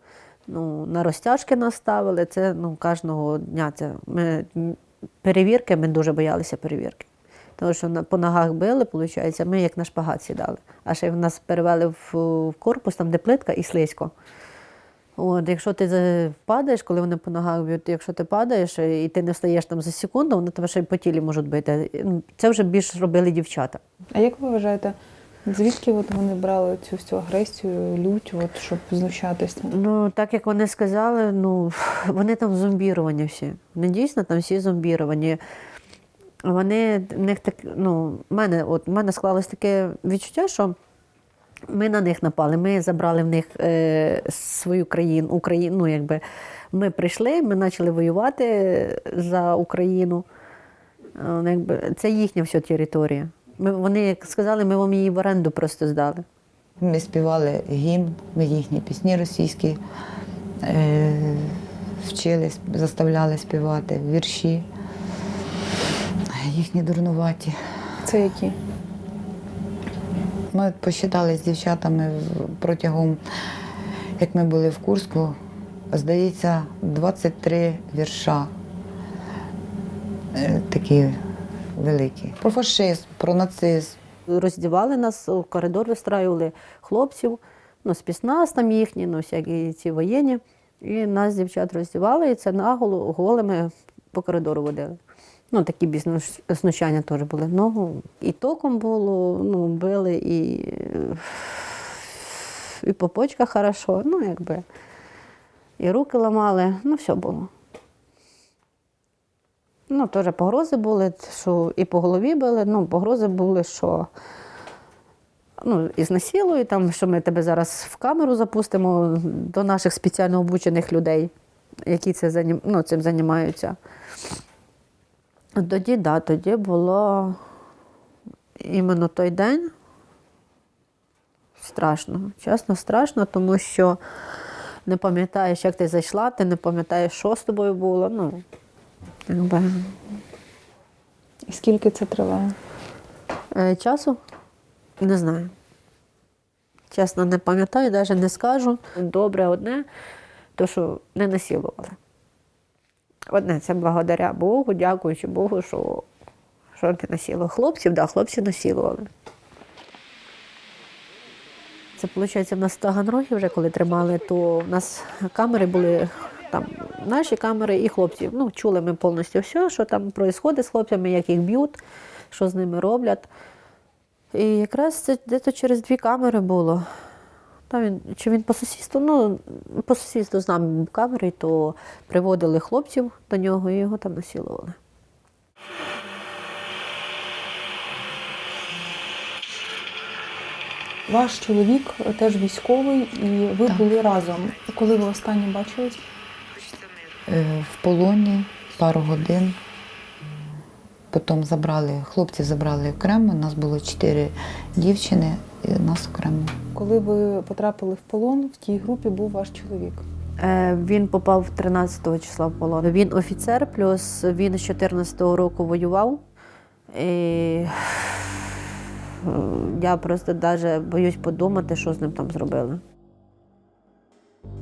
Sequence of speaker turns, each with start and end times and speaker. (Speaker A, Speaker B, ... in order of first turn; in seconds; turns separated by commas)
Speaker A: 0.5-14.1, Speaker A: 15.2-23.8, Speaker B: 24.1-29.7, Speaker A: 29.7-35.4, Speaker A: 36.4-40.8, Speaker A: 41.7-46.2, Speaker A: 46.7-50.2, Speaker A: 51.2-56.2, Speaker C: 56.8-59.8, Speaker C: 60.6-64.7, Speaker C: 66.3-67.6, Speaker B: 68.0-68.6, Speaker C: 70.5-73.2, Speaker C: 74.2-75.4, Speaker C: 75.9-78.5, Speaker C: 80.3-81.2, Speaker C: 81.8-84.0, Speaker A: 84.3-95.0, Speaker A: 95.5-104.6, Speaker A: 105.8-107.5, Speaker A: 109.9-114.1, Speaker A: 115.6-121.3, Speaker A: 121.9-123.8, Speaker A: 125.6-127.4, Speaker A: 128.6-129.7, Speaker A: 131.6-134.0, Speaker A: 134.9-138.4, Speaker A: 139.3-140.0, Speaker B: 141.5-142.6, Speaker A: 143.5-144.2, Speaker A: 145.0-145.5, Speaker A: 146.9-149.9, Speaker A: 150.6-152.0, Speaker A: 153.3-156.1, Speaker A: 156.8-159.1, Speaker A: 162.0-171.8, Speaker A: 172.3-173.3, Speaker A: 174.3-176.9, Speaker A: 177.7-184.8, Speaker B: 191.1-196.0, Speaker C: 197.3-199.6, Speaker C: 201.1-206.6, Speaker B: 206.7-210.0, Speaker A: 210.4-216.2, Speaker A: 216.9-218.6, Speaker A: 219.2-222.8